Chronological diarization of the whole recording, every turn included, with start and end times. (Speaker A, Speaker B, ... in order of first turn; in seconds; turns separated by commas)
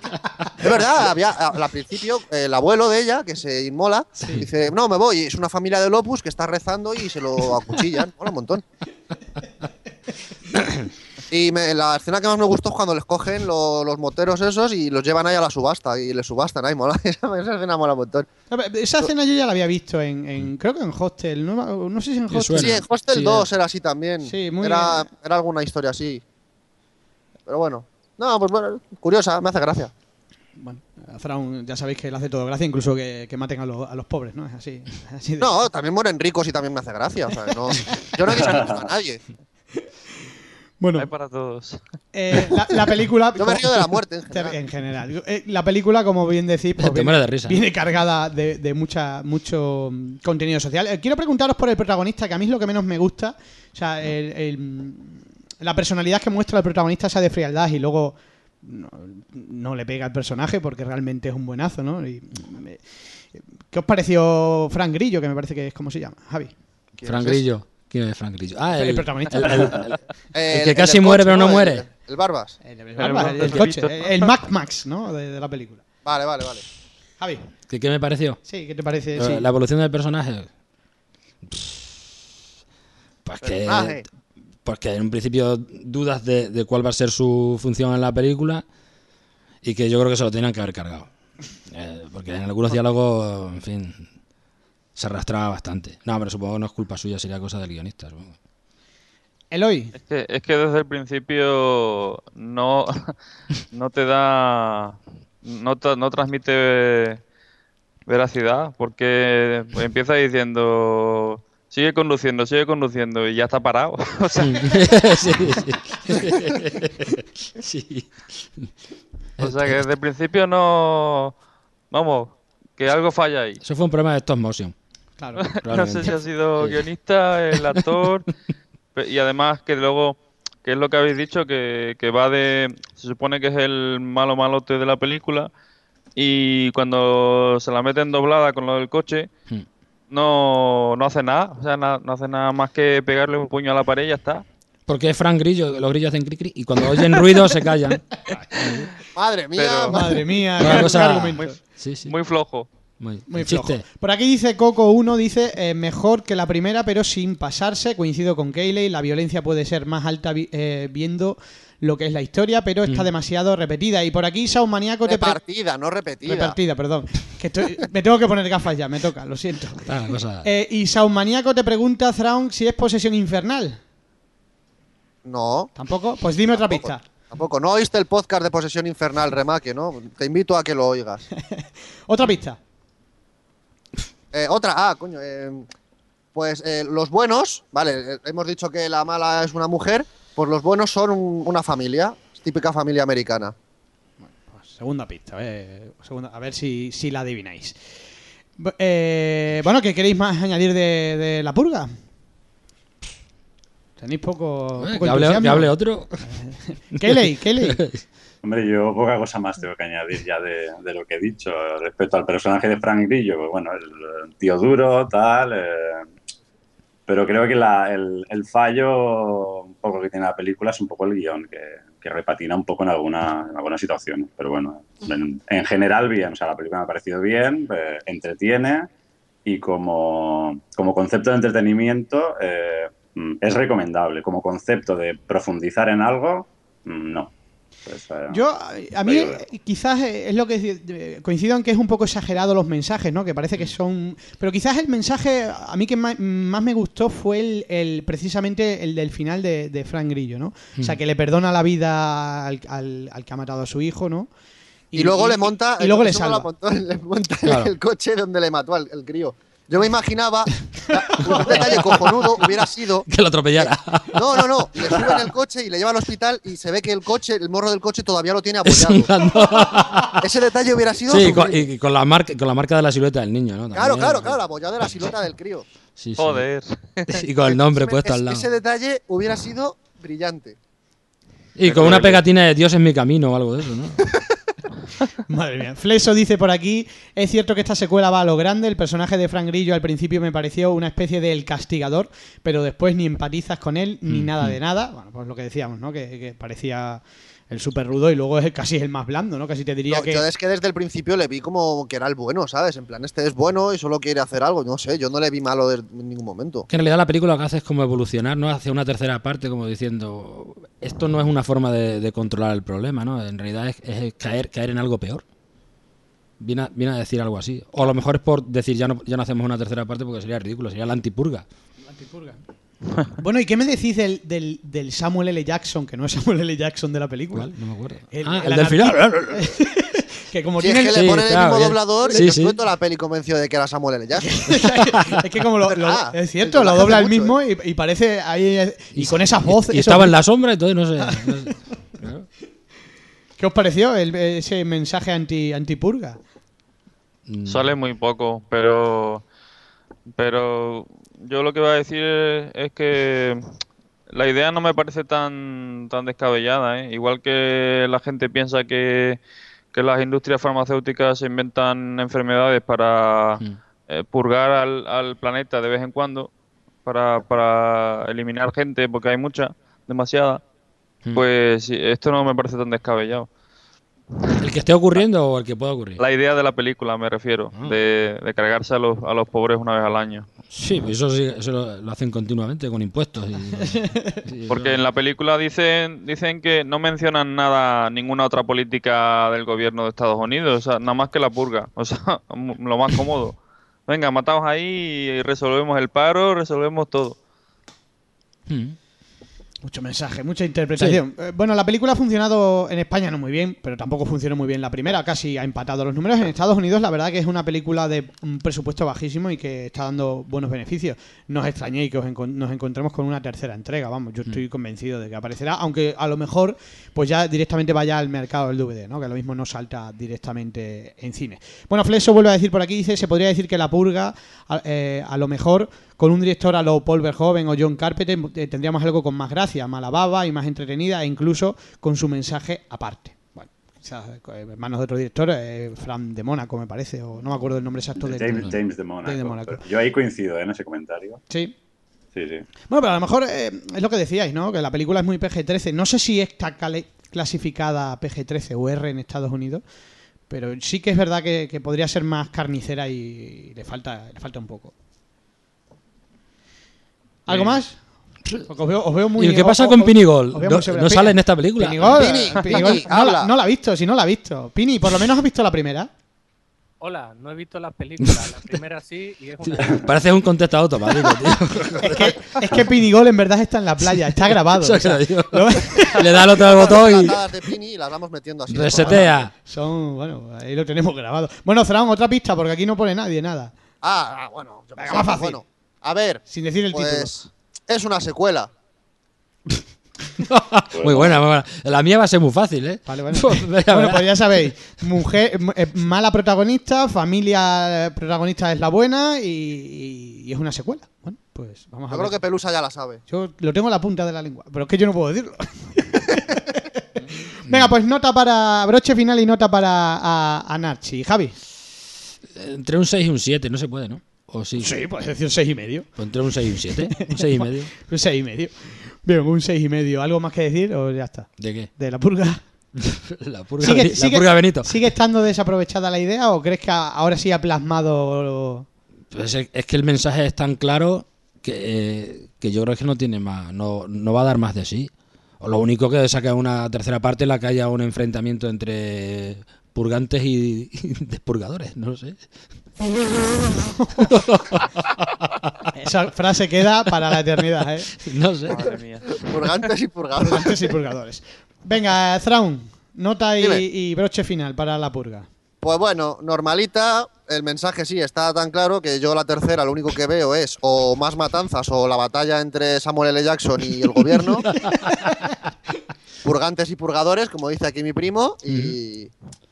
Speaker A: 0.6-8.6, Speaker B: 10.5-10.9, Speaker A: 11.3-18.3, Speaker C: 18.5-22.8, Speaker B: 22.3-23.5, Speaker A: 22.6-26.2, Speaker C: 24.2-25.1, Speaker A: 27.5-29.9, Speaker C: 30.6-35.5, Speaker A: 35.4-39.2, Speaker D: 38.5-38.9, Speaker C: 40.8-41.1, Speaker E: 41.0-41.8, Speaker C: 42.1-66.5, Speaker A: 43.4-44.5, Speaker B: 46.8-47.6, Speaker A: 67.0-67.4, Speaker B: 67.0-71.8, Speaker C: 68.7-69.8, Speaker A: 70.3-72.6, Speaker C: 72.6-75.8, Speaker E: 73.0-74.3, Speaker A: 76.0-76.7, Speaker B: 77.7-78.4, Speaker C: 78.4-79.5, Speaker B: 79.2-80.5, Speaker B: 81.5-81.8, Speaker B: 83.2-84.0, Speaker A: 83.6-84.0, Speaker B: 84.6-88.6, Speaker B: 89.6-91.1, Speaker B: 91.7-94.1, Speaker B: 95.0-98.3, Speaker C: 99.5-99.9, Speaker E: 100.0-103.1, Speaker E: 103.7-107.2, Speaker E: 108.0-114.8, Speaker B: 114.4-118.7, Speaker B: 119.4-119.8, Speaker E: 119.4-121.3, Speaker E: 121.9-123.6, Speaker B: 123.6-124.7, Speaker C: 125.2-125.4, Speaker E: 125.5-128.3, Speaker B: 125.6-126.8, Speaker B: 127.5-128.0, Speaker E: 128.9-135.5, Speaker E: 136.2-139.3, Speaker E: 140.1-144.4, Speaker B: 144.9-148.9, Speaker A: 149.1-150.2, Speaker E: 149.5-152.7, Speaker C: 149.9-151.6, Speaker B: 150.6-152.1, Speaker B: 153.0-153.8, Speaker C: 153.3-165.4, Speaker A: 165.1-166.6, Speaker C: 166.2-173.8, Speaker B: 169.8-170.5, Speaker A: 175.2-175.7, Speaker C: 175.8-177.0, Speaker A: 176.6-181.2, Speaker C: 181.3-182.6, Speaker A: 184.3-185.7, Speaker A: 186.3-193.5, Speaker C: 194.2-197.8, Speaker C: 198.6-201.9, Speaker C: 204.0-207.8, Speaker B: 204.8-206.2, Speaker B: 207.1-208.0, Speaker D: 208.4-216.1, Speaker D: 217.1-228.9, Speaker D: 229.4-237.3, Speaker D: 237.8-238.4, Speaker C: 238.3-254.3, Speaker D: 239.0-239.4, Speaker C: 254.9-256.5, Speaker A: 254.9-269.1, Speaker B: 257.4-257.7, Speaker B: 261.3-262.0, Speaker B: 263.1-264.5, Speaker B: 268.6-270.2, Speaker A: 270.2-271.7, Speaker B: 271.1-274.4, Speaker A: 273.7-275.6, Speaker B: 276.0-276.4, Speaker E: 276.2-277.2, Speaker B: 277.1-278.5, Speaker A: 277.4-280.6, Speaker B: 281.6-284.1, Speaker E: 281.6-282.2, Speaker C: 285.3-300.2, Speaker B: 294.1-294.5, Speaker A: 299.9-306.7, Speaker B: 306.7-315.2, Speaker B: 316.4-321.4, Speaker C: 321.9-322.4, Speaker C: 323.1-327.5, Speaker B: 327.3-329.5, Speaker C: 328.1-331.1, Speaker A: 330.6-334.6, Speaker B: 330.9-332.6, Speaker C: 334.2-340.2, Speaker A: 335.6-337.3, Speaker B: 338.9-342.3, Speaker C: 341.0-341.3, Speaker C: 343.4-346.2, Speaker B: 347.2-347.7, Speaker E: 347.4-349.2, Speaker E: 350.1-353.4, Speaker E: 354.1-359.2, Speaker E: 359.7-366.3, Speaker E: 366.8-370.4, Speaker E: 371.1-373.3, Speaker B: 374.4-376.0, Speaker E: 376.0-380.3, Speaker B: 380.5-384.8, Speaker E: 384.5-397.2, Speaker B: 398.5-398.8, Speaker C: 399.6-439.6, Speaker B: 400.8-401.0, Speaker D: 438.0-441.2, Speaker D: 442.1-442.4, Speaker C: 442.7-449.6, Speaker C: 450.3-454.7, Speaker C: 457.2-457.8, Speaker E: 457.3-457.6, Speaker C: 458.4-465.9, Speaker B: 459.1-462.5, Speaker A: 461.8-463.3, Speaker F: 466.8-469.9, Speaker B: 468.0-468.3, Speaker B: 469.4-472.2, Speaker C: 471.8-476.2, Speaker B: 474.3-477.3, Speaker A: 476.0-479.1, Speaker B: 478.5-479.3, Speaker C: 478.7-483.5, Speaker A: 483.8-488.5, Speaker C: 484.8-485.4, Speaker C: 486.3-487.1, Speaker B: 490.2-494.3, Speaker D: 490.7-491.1, Speaker C: 492.9-502.2, Speaker A: 501.9-503.0, Speaker C: 503.1-511.4, Speaker B: 507.4-507.7, Speaker B: 512.3-514.8, Speaker C: 514.6-516.0, Speaker B: 516.0-517.7, Speaker C: 516.9-522.4, Speaker B: 521.4-521.7, Speaker B: 522.8-524.8, Speaker C: 523.6-528.6, Speaker B: 529.1-542.2, Speaker C: 543.8-544.1, Speaker B: 544.0-545.7, Speaker C: 545.7-547.9, Speaker B: 548.0-548.8, Speaker E: 548.5-549.7, Speaker A: 548.5-550.6, Speaker C: 550.2-555.3, Speaker A: 555.6-564.5, Speaker B: 564.1-564.8, Speaker C: 564.7-565.2, Speaker A: 566.2-569.1, Speaker B: 568.5-568.7